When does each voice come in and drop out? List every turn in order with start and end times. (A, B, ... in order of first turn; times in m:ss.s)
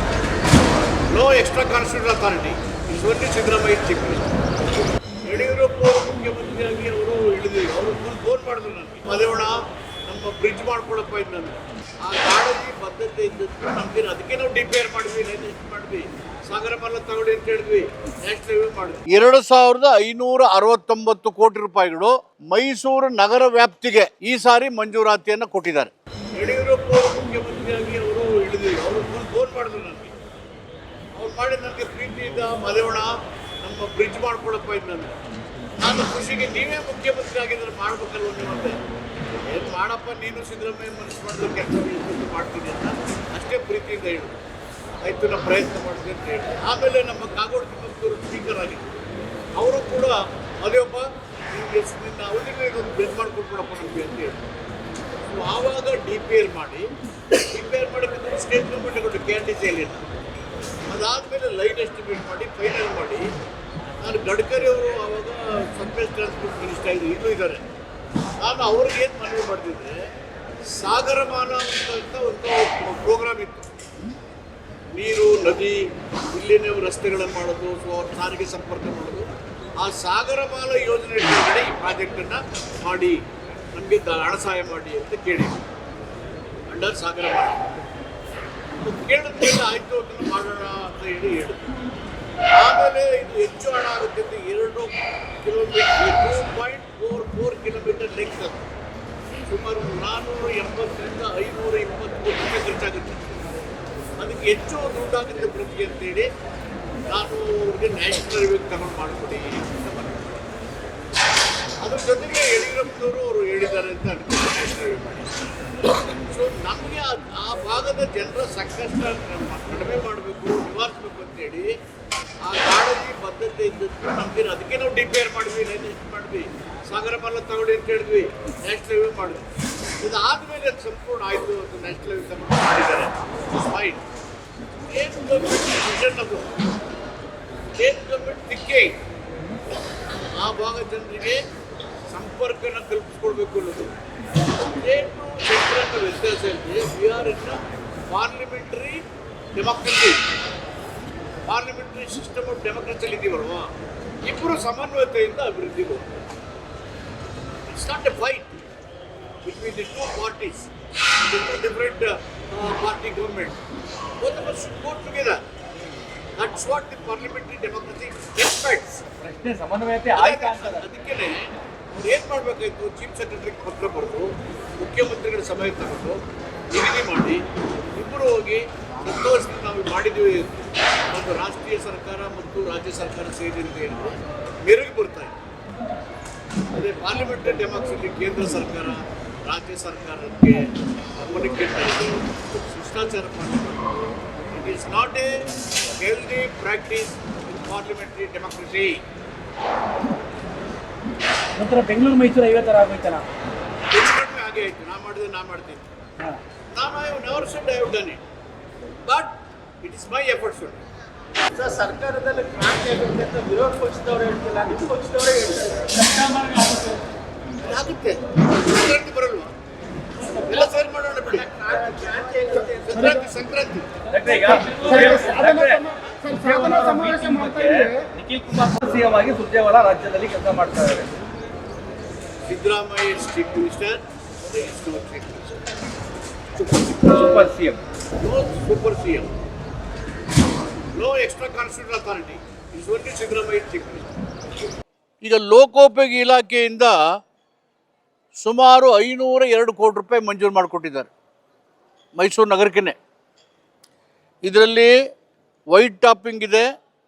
0:01.1-0:04.3 A
0:05.2-0:30.2 A
0:31.2-0:35.2 A
0:35.8-0:38.8 A
0:39.4-0:44.4 A
0:45.0-0:48.9 A
0:49.6-0:54.4 A
0:55.3-1:00.0 A
1:00.9-1:03.3 A
1:04.0-1:07.6 A
1:08.4-1:10.0 A
1:10.7-1:13.7 A
1:15.0-1:19.3 A
1:19.8-1:23.2 A
1:23.7-1:25.6 A
1:26.7-1:27.6 A
1:28.8-1:31.7 A
1:32.5-1:38.7 A
1:39.5-1:43.3 A
1:44.2-1:46.3 A
1:47.1-1:50.5 A
1:51.8-1:55.3 A
1:55.9-2:01.7 A
2:02.4-2:09.5 A
2:10.0-2:14.0 A
2:14.9-2:16.5 A
2:17.8-2:19.0 A
2:20.1-2:21.4 A
2:22.1-2:23.9 A
2:24.7-2:30.2 A
2:31.4-2:33.7 A
2:34.2-2:36.1 A
2:37.7-2:38.5 A
2:39.4-2:43.6 A
2:44.2-2:45.4 A
2:46.4-2:49.1 A
2:49.2-2:50.8 B
2:50.2-3:05.4 A
3:06.7-3:15.4 A
3:16.0-3:19.0 A
3:21.6-3:23.3 B
3:23.9-3:25.9 A
3:26.7-3:28.2 A
3:29.0-3:30.8 A
3:31.6-3:35.9 C
3:35.9-3:36.6 B
3:37.6-3:39.5 A
3:40.3-3:41.9 A
3:41.8-3:42.7 C
3:42.6-3:44.0 A
3:44.1-3:51.1 B
3:52.5-3:55.7 A
3:56.6-3:57.0 A
3:56.9-3:57.8 B
3:58.2-3:59.3 A
4:00.9-4:04.1 A
4:05.2-4:07.0 A
4:08.4-4:11.1 A
4:12.2-4:13.0 A
4:14.4-4:14.9 A
4:15.7-4:16.7 A